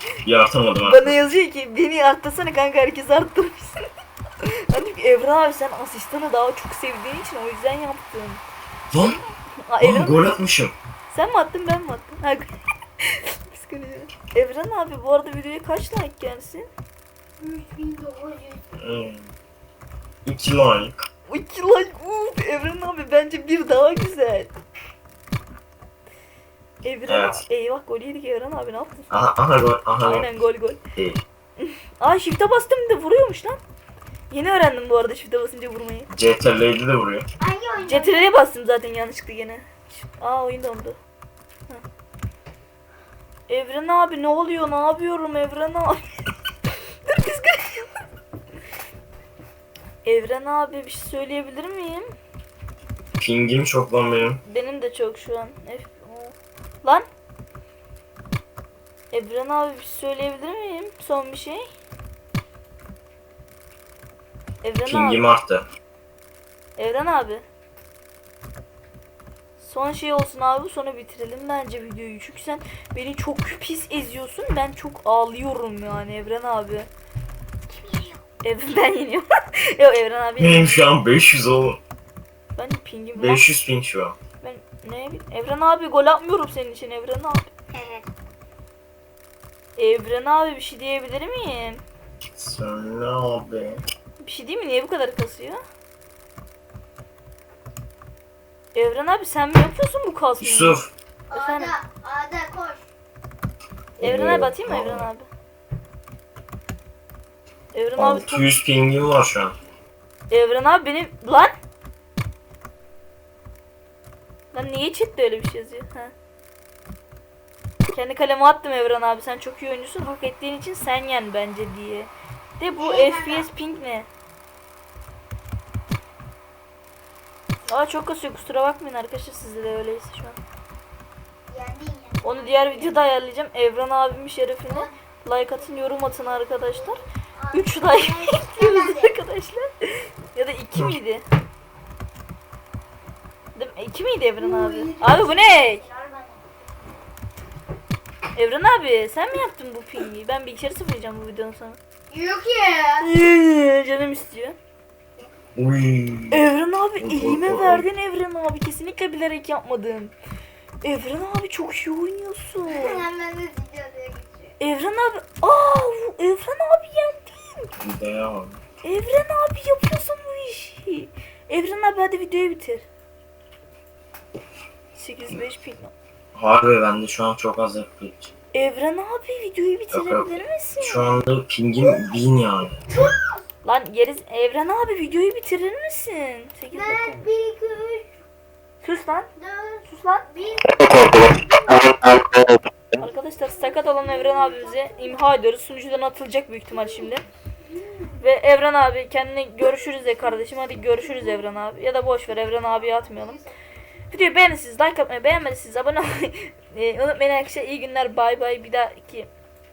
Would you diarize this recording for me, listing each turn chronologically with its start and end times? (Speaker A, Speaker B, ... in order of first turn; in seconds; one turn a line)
Speaker A: 0.2-1.2
Speaker B: 0.8-3.8
Speaker B: 4.4-8.4
Speaker A: 8.9-9.2
Speaker B: 9.6-10.2
Speaker A: 9.8-10.7
Speaker B: 11.1-12.5
Speaker B: 13.0-16.7
Speaker C: 17.4-18.7
Speaker A: 18.8-19.3
Speaker A: 20.2-21.1
Speaker B: 21.3-24.5
Speaker B: 26.8-29.1
Speaker A: 27.1-27.4
Speaker A: 29.1-30.2
Speaker B: 30.0-30.8
Speaker A: 30.9-31.2
Speaker B: 31.6-33.6
Speaker B: 34.3-36.1
Speaker A: 36.1-37.2
Speaker C: 37.4-38.3
Speaker B: 37.8-41.0
Speaker B: 43.5-46.0
Speaker B: 47.0-47.9
Speaker B: 50.0-52.1
Speaker A: 53.2-54.4
Speaker B: 54.4-57.0
Speaker B: 59.1-61.6
Speaker B: 64.6-65.2
Speaker A: 64.8-65.7
Speaker B: 66.8-67.4
Speaker B: 69.6-76.9
Speaker C: 77.7-78.2
Speaker B: 78.4-80.8
Speaker A: 80.4-81.8
Speaker B: 82.5-83.4
Speaker A: 83.2-84.2
Speaker B: 84.4-87.5
Speaker C: 87.7-88.1
Speaker B: 89.8-91.8
Speaker A: 92.4-93.8
Speaker B: 94.2-95.6
Speaker B: 98.7-100.8
Speaker A: 100.4-100.9
Speaker C: 101.3-102.8
Speaker B: 101.3-101.7
Speaker A: 104.0-105.1
Speaker B: 104.0-105.3
Speaker B: 107.7-108.5
Speaker A: 108.0-109.5
Speaker B: 110.3-111.5
Speaker B: 114.5-116.1
Speaker B: 117.9-124.1
Speaker C: 122.7-123.5
Speaker B: 127.7-130.4
Speaker C: 131.5-133.0
Speaker B: 132.2-137.0
Speaker C: 134.7-134.9
Speaker C: 136.7-139.2
Speaker B: 137.5-141.2
Speaker B: 143.5-145.8
Speaker C: 144.4-146.5
Speaker B: 148.3-151.8
Speaker C: 152.1-153.1
Speaker B: 153.0-154.6
Speaker A: 155.6-156.4
Speaker B: 156.3-160.1
Speaker A: 157.0-157.9
Speaker B: 160.8-163.0
Speaker C: 162.6-164.6
Speaker B: 164.6-167.7
Speaker A: 167.8-168.6
Speaker B: 168.8-172.8
Speaker B: 174.9-175.9
Speaker A: 176.3-178.3
Speaker B: 178.5-181.1
Speaker A: 179.9-182.8
Speaker C: 182.9-183.4
Speaker B: 183.6-187.3
Speaker C: 186.7-188.1
Speaker B: 188.8-189.3
Speaker C: 189.3-192.2
Speaker B: 189.9-190.2
Speaker B: 193.0-197.2
Speaker C: 193.4-195.2
Speaker C: 196.7-198.2
Speaker B: 198.2-203.4
Speaker C: 200.3-201.4
Speaker C: 202.3-203.7
Speaker B: 204.1-209.3